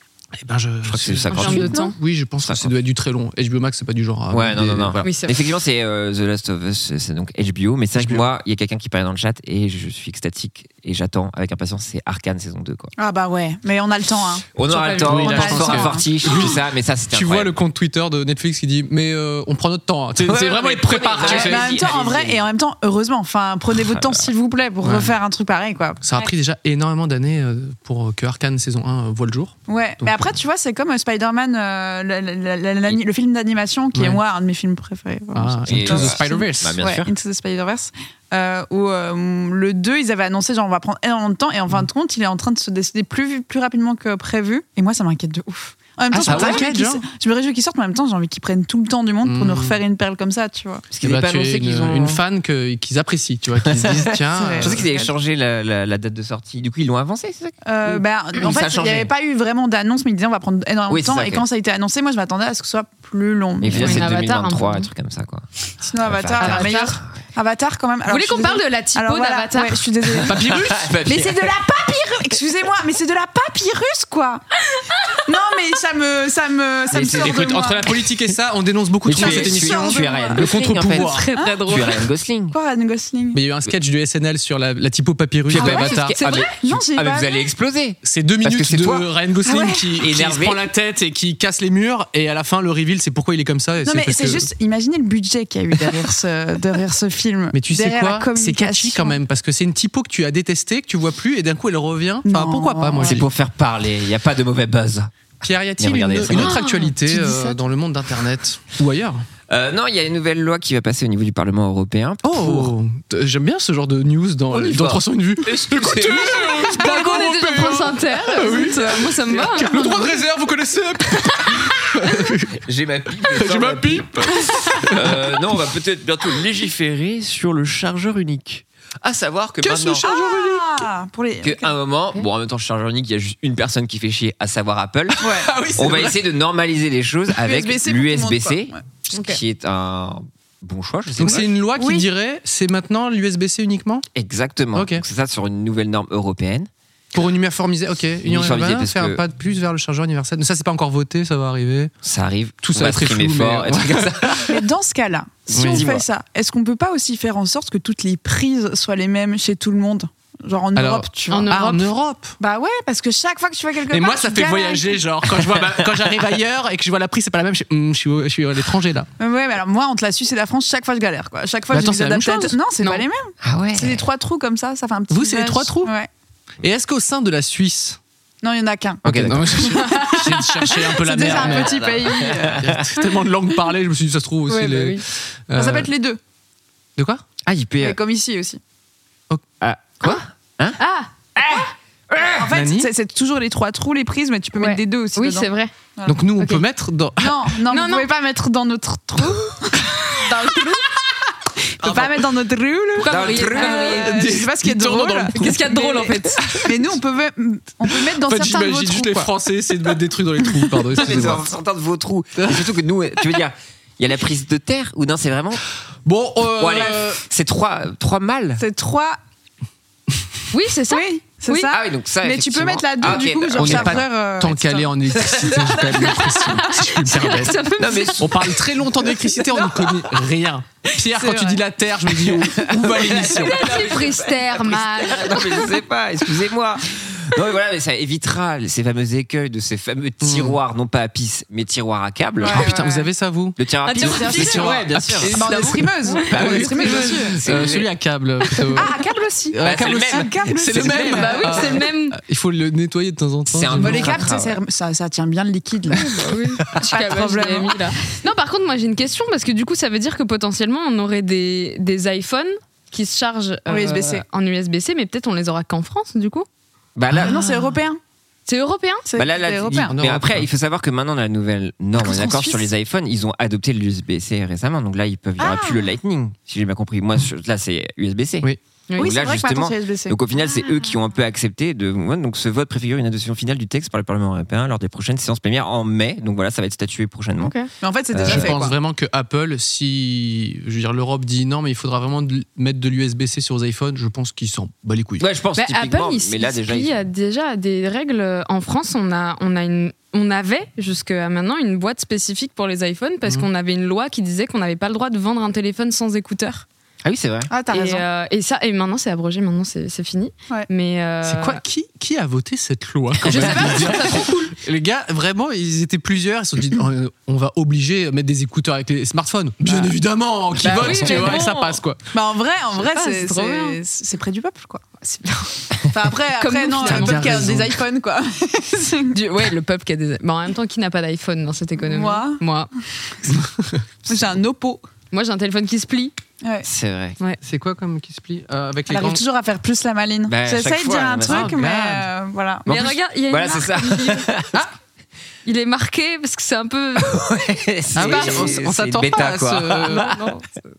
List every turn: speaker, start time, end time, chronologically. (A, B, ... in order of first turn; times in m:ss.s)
0:00.4-0:05.1 A
0:00.9-0:01.7 B
0:01.3-0:01.9 C
0:02.4-0:02.7 B
0:04.3-0:12.9 B
0:05.0-0:05.3 C
0:07.9-0:08.2 A
0:13.0-0:14.4 D
0:14.5-0:17.5 B
0:14.7-0:16.0 C
0:15.0-0:21.8 A
0:20.2-0:22.4 B
0:21.2-0:26.0 D
0:23.7-0:24.3 B
0:24.8-0:25.1 A
0:26.0-0:30.3 A
0:29.7-0:50.8 D
0:33.9-0:34.2 A
0:35.3-0:36.7 A
0:35.7-0:37.1 B
0:46.1-0:46.7 B
0:46.1-0:47.0 A
0:49.2-0:49.8 A
0:50.9-0:52.2 B
0:51.0-0:54.8 A
0:53.6-0:59.1 B
0:54.3-0:55.1 D
0:57.7-1:04.0 D
1:00.9-1:01.4 B
1:03.6-1:05.4 B
1:03.7-1:04.9 C
1:05.8-1:14.4 D
1:06.0-1:07.2 B
1:06.4-1:07.0 C
1:08.1-1:09.8 C
1:10.2-1:11.6 B
1:10.2-1:11.0 A
1:14.7-1:15.0 C
1:15.2-1:18.0 D
1:16.9-1:17.5 B
1:16.9-1:21.3 A
1:19.0-1:21.1 B
1:19.1-1:20.4 D
1:20.8-1:22.0 C
1:21.3-1:21.7 D
1:21.6-1:22.6 B
1:22.5-1:23.4 D
1:23.3-1:26.2 A
1:25.5-1:29.1 B
1:25.6-1:26.5 C
1:26.6-1:27.4 D
1:28.0-1:34.5 A
1:29.4-1:29.9 D
1:30.0-1:30.6 B
1:33.8-1:39.2 D
1:35.8-1:36.0 A
1:37.5-1:43.2 A
1:42.2-1:43.2 D
1:43.0-1:45.1 B
1:45.4-1:49.2 A
1:45.8-1:46.6 B
1:46.3-1:47.6 C
1:49.5-1:52.7 B
1:52.2-2:02.5 A
1:54.5-1:56.8 B
1:56.1-2:00.2 C
2:01.2-2:01.8 C
2:02.6-2:10.1 B
2:03.2-2:05.2 A
2:09.6-2:10.6 A
2:10.0-2:11.7 D
2:11.4-2:15.2 B
2:15.2-2:15.5 D
2:15.2-2:16.2 A
2:15.7-2:21.5 B
2:17.4-2:18.8 D
2:19.1-2:19.4 C
2:21.2-2:24.0 A
2:21.2-2:22.1 D
2:24.1-2:26.7 B
2:24.7-2:25.0 A
2:27.1-2:31.9 A
2:28.2-2:29.2 B
2:32.0-2:34.6 B
2:32.6-2:34.5 A
2:34.5-2:41.5 D
2:35.5-2:36.0 B
2:35.5-2:35.8 A
2:40.7-2:42.4 A
2:41.3-2:41.9 C
2:42.4-2:45.0 D
2:43.9-2:49.1 A
2:49.2-2:56.1 D
2:51.7-2:52.6 A
2:53.4-2:54.0 B
2:55.1-2:55.9 A
2:56.6-2:58.0 A
2:58.4-3:02.6 D
2:59.0-3:01.9 A
2:59.0-2:59.7 B
3:01.2-3:02.8 B
3:02.5-3:05.9 A
3:04.5-3:05.0 C
3:05.5-3:06.2 D
3:07.0-3:07.2 A
3:07.4-3:08.0 B
3:07.8-3:08.6 D
3:09.6-3:10.8 B
3:10.8-3:11.1 C
3:11.3-3:12.4 B
3:12.4-3:16.2 D
3:12.5-3:12.9 A
3:14.6-3:15.7 C
3:16.0-3:17.4 A
3:16.4-3:16.6 C
3:17.2-3:21.1 D
3:17.7-3:18.1 C
3:21.8-3:29.3 D
3:21.8-3:22.2 A
3:23.0-3:24.2 C
3:23.0-3:24.0 B
3:24.0-3:25.8 A
3:25.3-3:26.4 C
3:26.4-3:26.8 A
3:27.9-3:31.5 A
3:30.6-3:31.3 D
3:31.0-3:35.6 B
3:32.4-3:32.7 A
3:36.0-3:37.2 A
3:36.5-3:38.6 B
3:38.6-3:39.2 D
3:40.5-3:41.7 C
3:40.9-3:45.7 D
3:41.7-3:44.0 B
3:43.6-3:53.6 A
3:45.3-3:46.0 B
3:46.1-3:48.4 C
3:47.8-3:48.6 B
3:49.8-3:50.0 D
3:51.1-3:51.6 D
3:52.3-4:02.7 B
3:53.4-3:55.7 C
4:00.2-4:00.6 A
4:02.4-4:03.1 D
4:02.4-4:09.0 A
4:03.6-4:05.3 B
4:03.8-4:04.8 C
4:04.1-4:04.7 D
4:05.3-4:07.4 D
4:06.3-4:07.9 B
4:08.5-4:08.8 C
4:08.7-4:11.8 D
4:09.5-4:14.3 A
4:09.6-4:11.1 B
4:11.1-4:12.2 C
4:13.5-4:14.6 B
4:13.8-4:16.1 D
4:16.0-4:26.5 C
4:16.8-4:17.9 D
4:23.7-4:24.2 D
4:27.0-4:27.4 B
4:27.2-4:28.0 D
4:28.5-4:29.0 C
4:29.1-4:30.0 D
4:29.2-4:38.5 B
4:29.8-4:30.5 A
4:32.0-4:32.6 D
4:35.4-4:35.9 D
4:38.9-4:39.2 C
4:39.0-4:40.2 D
4:39.0-4:47.5 B
4:47.4-4:47.7 C
4:47.8-4:48.8 D
4:48.1-4:48.6 B
4:48.2-4:55.2 A
4:55.2-4:56.9 B
4:55.6-5:06.6 C
5:07.0-5:07.5 B
5:07.5-5:08.0 D
5:07.7-5:11.6 C
5:11.2-5:22.0 A
5:13.2-5:14.6 C
5:20.6-5:21.8 C
5:22.1-5:24.8 D
5:22.8-5:23.8 C
5:25.0-5:25.8 C
5:25.9-5:29.2 D
5:26.4-5:27.5 C
5:26.8-5:27.7 A
5:29.1-5:32.7 C
5:31.8-5:32.4 D
5:33.4-5:33.8 A
5:34.1-5:34.8 D
5:35.1-5:36.1 C
5:36.6-5:37.2 B
5:37.4-5:39.2 A
5:38.9-5:42.7 D
5:40.3-5:41.6 B
5:41.3-5:42.0 A
5:42.7-5:44.3 C
5:42.7-5:44.6 B
5:45.4-5:47.2 C
5:47.0-5:50.2 B
5:47.9-5:50.1 A
5:48.0-5:48.6 C
5:49.9-5:50.5 C